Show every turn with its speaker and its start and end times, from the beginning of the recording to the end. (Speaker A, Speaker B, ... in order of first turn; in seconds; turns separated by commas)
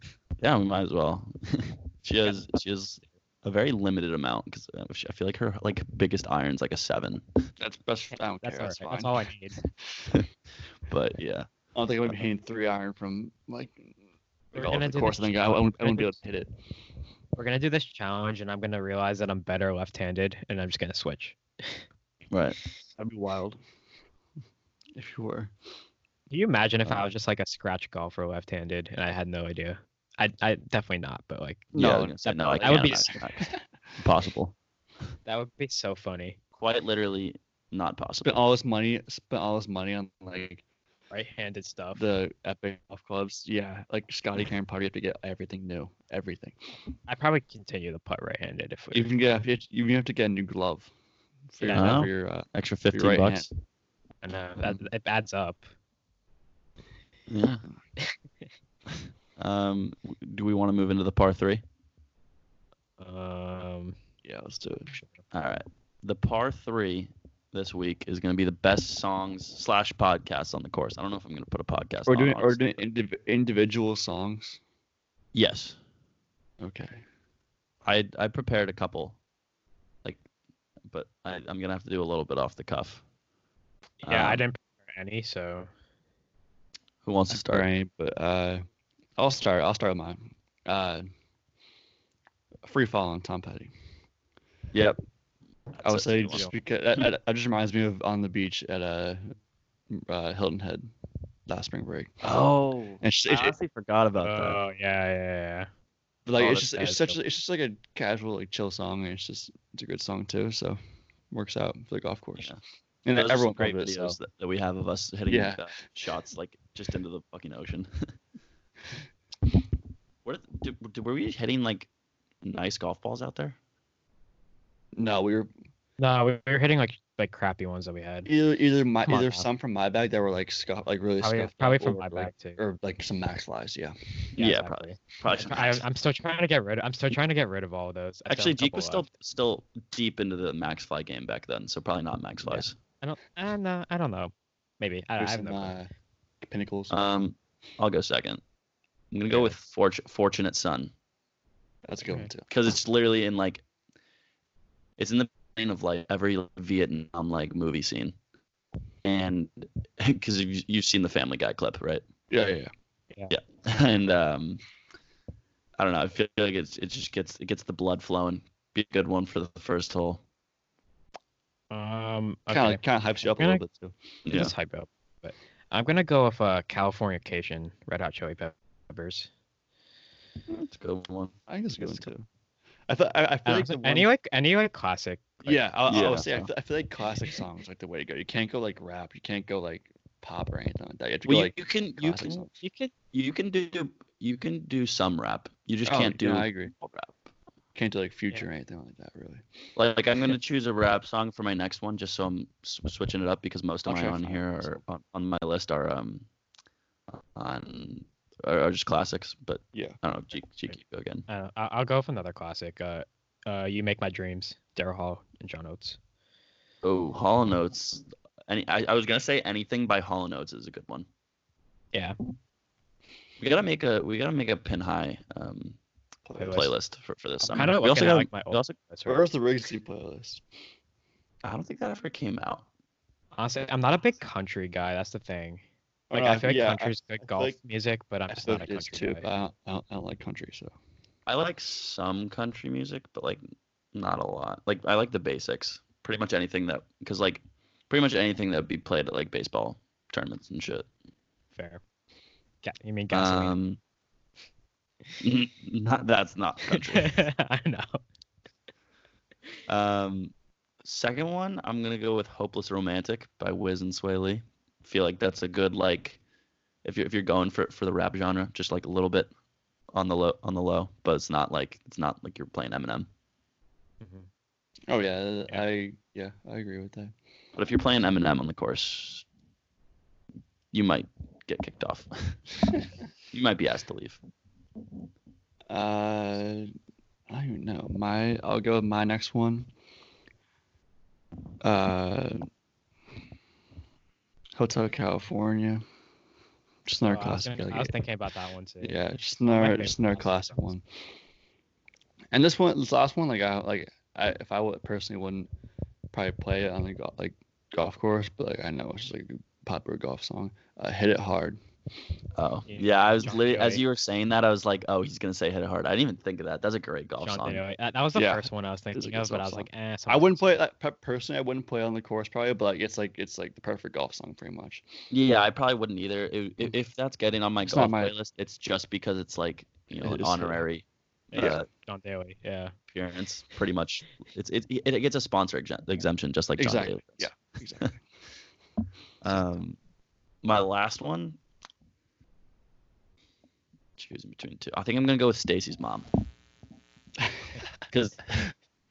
Speaker A: 0.4-7.4, Speaker B: 7.6-9.2, Speaker C: 8.4-9.6, Speaker A: 10.8-11.5, Speaker B: 11.7-13.9, Speaker B: 14.5-16.5, Speaker C: 14.5-16.1, Speaker C: 17.4-21.8, Speaker A: 22.3-22.6, Speaker B: 23.0-23.6, Speaker B: 24.9-25.5, Speaker C: 26.3-33.2, Speaker B: 31.7-33.6, Speaker A: 31.7-34.5, Speaker C: 35.2-36.4, Speaker A: 36.6-38.4, Speaker B: 38.2-40.6, Speaker C: 41.1-42.0, Speaker B: 41.9-46.6, Speaker C: 47.1-49.1, Speaker B: 48.9-50.9, Speaker B: 51.5-53.5, Speaker C: 51.6-52.0, Speaker A: 51.7-53.5, Speaker C: 54.2-55.6, Speaker B: 54.6-54.8, Speaker A: 57.3-57.6, Speaker A: 59.4-61.6, Speaker C: 63.0-64.0, Speaker B: 64.2-65.0, Speaker A: 65.3-72.8, Speaker B: 72.1-74.6, Speaker A: 75.3-75.8, Speaker B: 76.6-77.0, Speaker A: 77.8-79.2, Speaker A: 80.9-83.0, Speaker C: 84.0-85.7, Speaker A: 84.0-84.4, Speaker A: 87.0-87.7, Speaker B: 87.3-88.6, Speaker B: 89.2-91.0, Speaker B: 92.6-93.7, Speaker A: 95.7-96.5, Speaker B: 95.8-99.3, Speaker B: 99.9-100.9, Speaker B: 101.5-102.2, Speaker A: 102.2-104.6, Speaker B: 103.0-103.5, Speaker C: 104.2-105.7, Speaker B: 106.2-110.8, Speaker C: 106.4-107.2, Speaker B: 111.3-112.5, Speaker B: 113.0-114.2, Speaker A: 113.1-118.1, Speaker B: 115.3-115.6, Speaker A: 120.2-121.9, Speaker A: 122.4-123.6, Speaker B: 124.9-125.5, Speaker C: 126.0-128.3, Speaker B: 128.2-133.9, Speaker C: 129.1-129.4, Speaker C: 131.2-132.6, Speaker A: 134.4-135.8, Speaker C: 134.4-139.1, Speaker A: 138.3-142.7, Speaker C: 142.4-145.7, Speaker B: 145.2-145.9, Speaker B: 146.4-146.9, Speaker A: 146.9-148.4, Speaker A: 149.1-150.9, Speaker B: 151.9-152.5, Speaker A: 152.5-153.6, Speaker A: 155.0-158.2, Speaker A: 159.0-162.0, Speaker B: 162.3-162.7, Speaker A: 163.3-164.6, Speaker A: 165.8-170.2, Speaker C: 171.7-173.6, Speaker B: 172.5-173.9, Speaker A: 174.2-174.5, Speaker C: 174.3-179.3, Speaker A: 180.5-181.3, Speaker B: 181.5-182.3, Speaker B: 182.9-184.1, Speaker C: 183.5-185.6, Speaker B: 185.4-192.5, Speaker A: 185.9-186.5, Speaker A: 191.2-192.4, Speaker C: 192.6-192.9, Speaker A: 193.1-197.3, Speaker B: 195.8-196.7, Speaker B: 197.7-199.4, Speaker A: 199.8-206.2, Speaker B: 203.8-204.8, Speaker A: 207.1-211.2, Speaker C: 211.3-216.0, Speaker A: 216.8-221.1, Speaker A: 223.4-225.8, Speaker B: 226.2-226.7, Speaker C: 226.4-226.7, Speaker A: 226.4-228.7, Speaker C: 227.4-229.2, Speaker B: 229.1-230.4, Speaker A: 231.4-232.6, Speaker C: 233.3-239.2, Speaker B: 236.1-237.6, Speaker B: 238.3-240.7, Speaker A: 241.3-243.4, Speaker A: 243.9-250.9, Speaker C: 251.6-251.8, Speaker C: 252.6-253.5, Speaker A: 253.1-253.8, Speaker A: 255.2-257.2, Speaker C: 256.7-258.0, Speaker A: 259.7-260.3, Speaker A: 260.8-266.2, Speaker A: 266.8-269.3, Speaker A: 269.9-273.1, Speaker C: 274.0-274.3, Speaker B: 274.9-277.1, Speaker A: 277.6-279.2, Speaker A: 280.7-282.4, Speaker A: 283.3-284.2, Speaker B: 285.7-286.7, Speaker B: 287.3-289.7, Speaker B: 291.6-292.4, Speaker B: 294.6-295.8, Speaker B: 296.9-297.9, Speaker C: 297.0-300.7, Speaker B: 298.8-300.8, Speaker B: 302.3-305.5, Speaker B: 306.1-311.6, Speaker A: 312.4-317.6, Speaker C: 312.7-313.8, Speaker C: 317.2-320.6, Speaker B: 318.1-324.8, Speaker A: 325.1-331.7, Speaker B: 327.6-328.1, Speaker B: 330.0-330.6, Speaker C: 331.3-332.7, Speaker B: 331.3-331.6, Speaker A: 332.9-337.3, Speaker B: 336.6-338.0, Speaker A: 339.2-339.8, Speaker A: 340.4-341.4, Speaker A: 344.0-346.1, Speaker B: 347.2-347.5, Speaker A: 347.9-348.3